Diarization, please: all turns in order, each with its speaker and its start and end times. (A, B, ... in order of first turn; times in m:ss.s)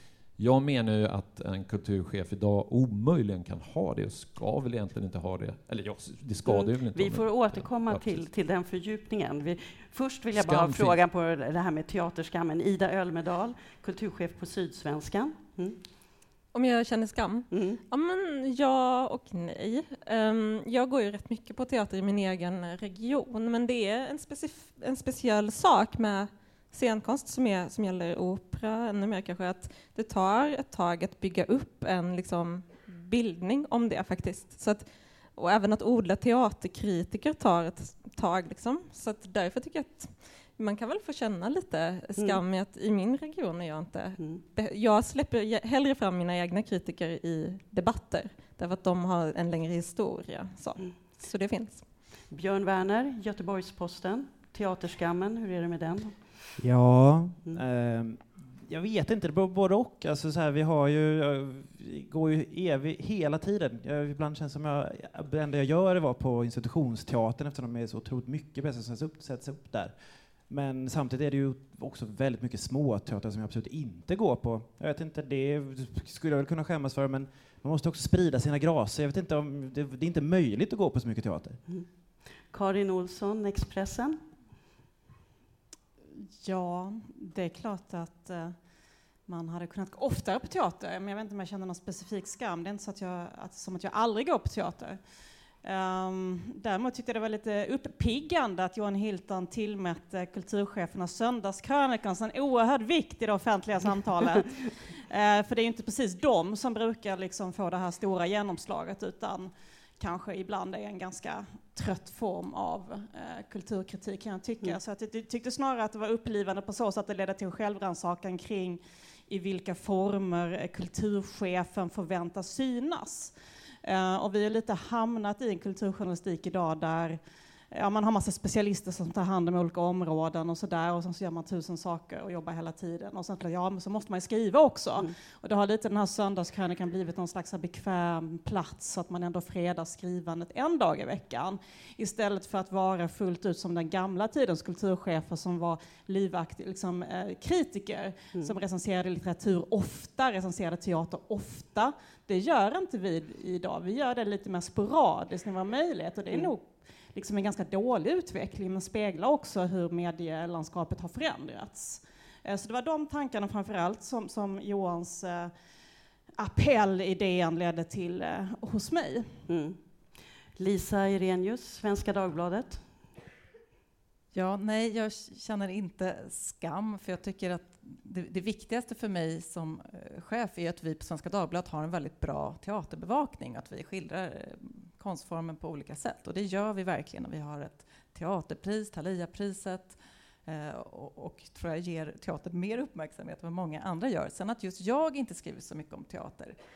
0:00.4-0:08.2 A
0:06.4-0:15.8 B
0:10.3-0:11.0 A
0:16.5-0:51.9 C
0:17.5-0:17.8 B
0:52.3-0:56.4 B
0:56.6-1:21.6 D
1:22.5-1:24.2 B
1:26.4-1:28.6 E
1:29.3-1:35.0 E
1:35.6-2:03.3 E
2:03.8-2:07.2 E
2:07.7-2:45.5 E
2:46.4-2:49.3 E
2:49.5-2:49.8 B
2:50.6-2:52.8 B
2:54.3-3:16.6 F